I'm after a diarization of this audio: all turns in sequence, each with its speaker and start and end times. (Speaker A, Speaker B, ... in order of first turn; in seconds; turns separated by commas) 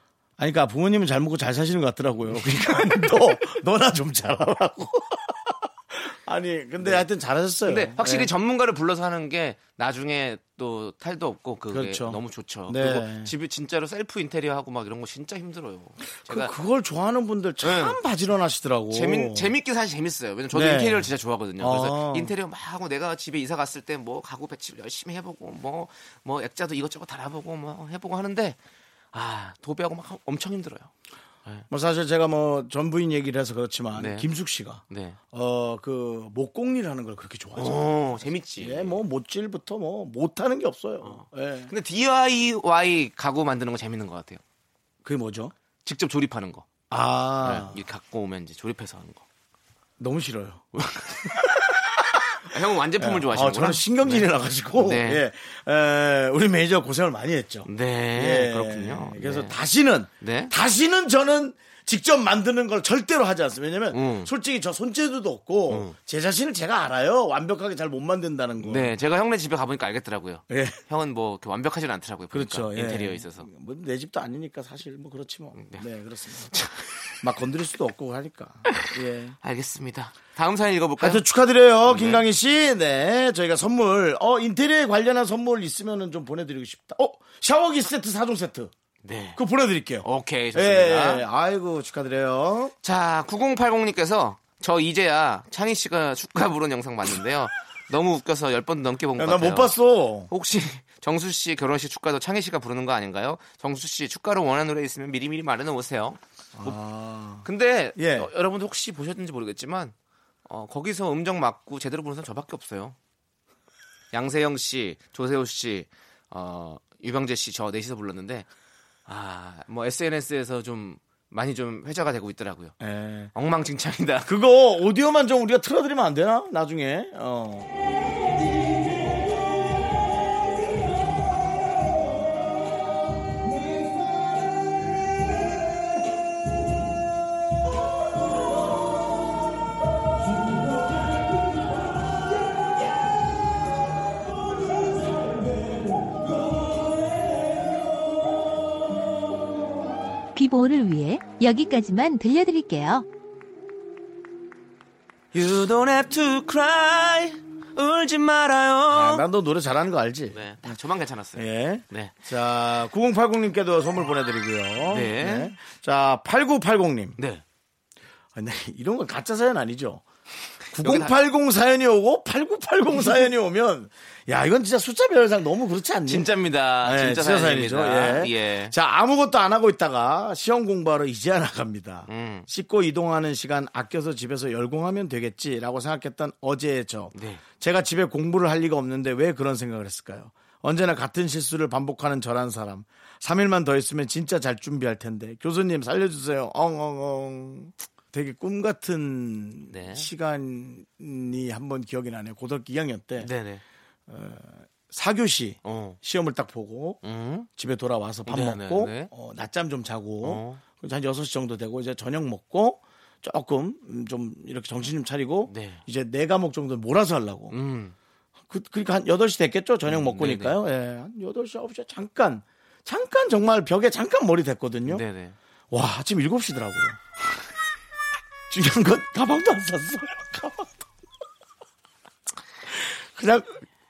Speaker A: 0.4-8.3, Speaker B: 7.7-16.5, Speaker A: 11.7-13.3, Speaker A: 16.2-19.5, Speaker B: 17.6-18.0, Speaker B: 18.9-28.6, Speaker A: 20.5-22.3, Speaker B: 29.1-30.9, Speaker A: 31.7-41.7, Speaker B: 34.0-34.3, Speaker B: 34.9-35.2, Speaker B: 37.6-39.0, Speaker B: 41.0-44.4, Speaker A: 45.0-45.5, Speaker B: 45.9-46.7, Speaker A: 46.9-47.8, Speaker B: 47.4-49.2, Speaker A: 50.0-52.2, Speaker B: 50.8-51.2, Speaker B: 52.4-55.3, Speaker A: 53.0-68.9, Speaker B: 57.7-59.5, Speaker B: 60.2-60.5, Speaker B: 63.9-64.3, Speaker B: 65.7-66.0, Speaker B: 68.6-73.5, Speaker A: 70.5-70.8, Speaker A: 72.3-76.5, Speaker B: 75.5-75.8, Speaker B: 76.5-77.0, Speaker A: 77.2-79.4, Speaker B: 79.4-81.2, Speaker A: 81.0-88.7, Speaker B: 81.9-82.2, Speaker B: 89.0-89.4, Speaker A: 89.3-92.8, Speaker B: 90.0-91.3, Speaker B: 92.8-99.8, Speaker A: 99.2-100.3, Speaker B: 100.3-106.8, Speaker A: 106.5-108.3, Speaker B: 107.4-109.9, Speaker B: 110.5-113.0, Speaker B: 114.1-118.5, Speaker B: 119.1-122.8, Speaker A: 122.8-123.3, Speaker B: 123.3-124.3, Speaker A: 124.3-127.7, Speaker C: 150.3-153.1, Speaker B: 155.3-159.2, Speaker A: 158.9-160.8, Speaker B: 160.3-162.2, Speaker A: 161.4-167.2, Speaker B: 164.9-165.6, Speaker B: 167.2-167.4, Speaker A: 168.3-170.0, Speaker A: 170.7-176.3, Speaker B: 170.8-171.2, Speaker B: 176.1-178.7, Speaker A: 176.8-203.3, Speaker B: 182.1-182.5, Speaker B: 187.1-187.4, Speaker B: 199.7-200.1, Speaker B: 203.2-203.6, Speaker A: 204.1-207.0, Speaker B: 205.6-206.0, Speaker B: 207.0-207.5, Speaker A: 207.6-217.6, Speaker B: 208.3-209.1, Speaker B: 210.2-210.6, Speaker B: 215.5-215.8, Speaker B: 217.5-217.9, Speaker A: 218.5-225.0, Speaker B: 219.9-220.6, Speaker B: 224.9-225.4, Speaker A: 225.7-227.0, Speaker A: 228.5-230.7, Speaker A: 232.7-233.6